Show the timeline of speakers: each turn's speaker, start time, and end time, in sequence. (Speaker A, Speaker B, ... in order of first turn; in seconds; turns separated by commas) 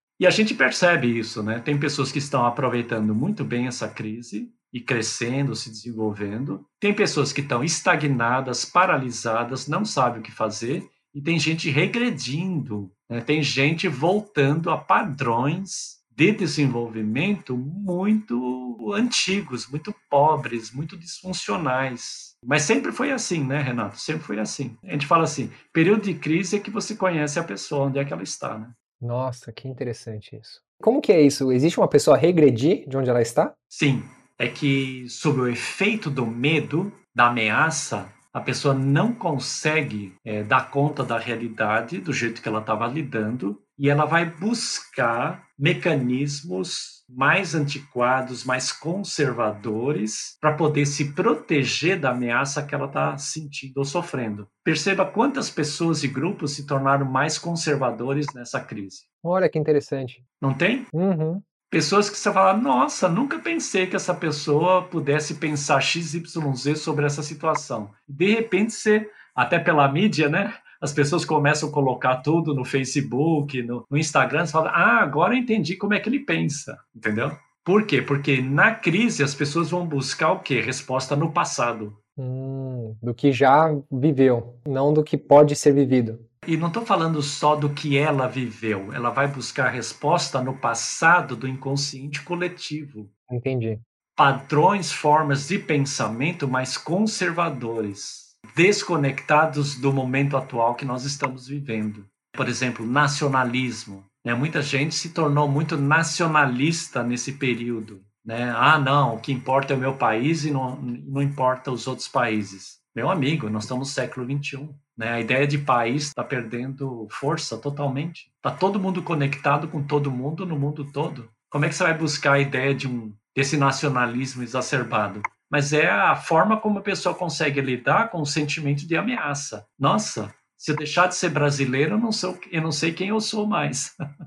Speaker A: 0.2-28.8, Speaker B: 29.0-33.5, Speaker A: 33.7-59.0, Speaker B: 59.2-60.2, Speaker A: 60.4-60.9, Speaker B: 60.9-61.4, Speaker A: 61.7-82.0, Speaker B: 82.2-86.2, Speaker A: 86.4-93.1, Speaker B: 93.3-93.8, Speaker A: 94.2-133.9